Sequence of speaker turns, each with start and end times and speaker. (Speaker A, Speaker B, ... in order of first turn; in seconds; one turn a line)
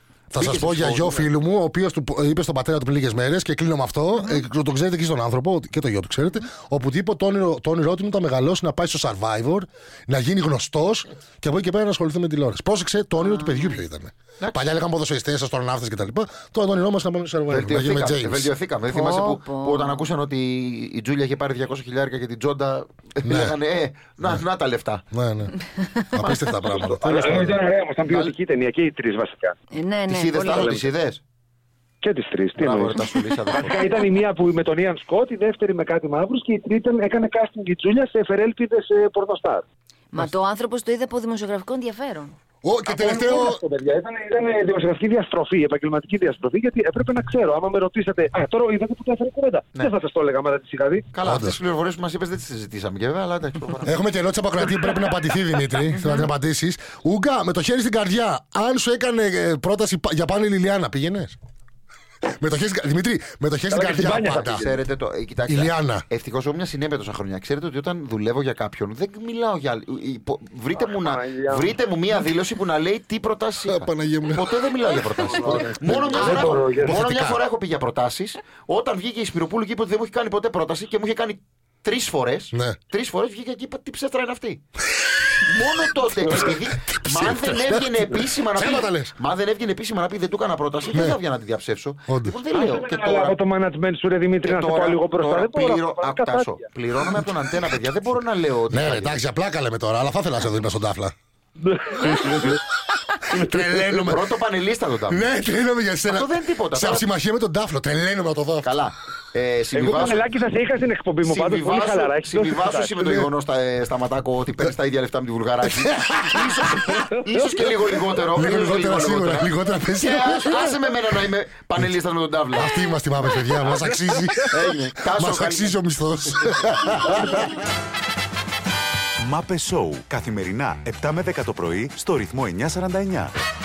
Speaker A: 0.3-18.5
Speaker B: 0.3-1.3
Speaker C: 13.2-13.8
Speaker B: 17.5-25.0
Speaker C: 18.9-20.0
Speaker A: 23.2-23.5
Speaker A: 25.1-25.5
Speaker A: 26.1-27.6
Speaker D: 26.6-29.5
Speaker C: 29.7-30.8
Speaker B: 30.1-31.2
Speaker D: 32.0-33.0
Speaker B: 32.6-34.1
Speaker D: 33.6-39.6
Speaker C: 40.1-42.3
Speaker A: 42.6-43.6
Speaker D: 42.9-51.1
Speaker B: 51.1-54.0
Speaker A: 51.2-51.6
Speaker A: 53.8-61.4
Speaker A: 62.4-64.7
Speaker D: 63.7-64.7
Speaker B: 64.3-84.6
Speaker A: 65.5-66.0
Speaker D: 70.8-71.7
Speaker A: 73.7-74.6
Speaker D: 75.2-77.0
Speaker A: 75.5-77.4
Speaker A: 82.5-82.8
Speaker B: 85.4-93.3
Speaker A: 86.3-89.1
Speaker A: 90.9-91.2
Speaker A: 92.1-92.4
Speaker D: 92.5-96.7
Speaker B: 94.4-99.2
Speaker A: 98.7-101.1
Speaker D: 101.6-102.6
Speaker A: 102.0-102.3
Speaker A: 103.3-104.3
Speaker B: 103.8-105.2
Speaker A: 105.1-108.7
Speaker B: 106.1-107.0
Speaker B: 108.6-110.2
Speaker D: 109.7-113.1
Speaker B: 111.2-122.9
Speaker A: 115.6-117.0
Speaker A: 118.3-120.8
Speaker A: 122.5-127.4
Speaker B: 124.4-125.8
Speaker B: 126.4-127.4
Speaker E: 129.2-133.3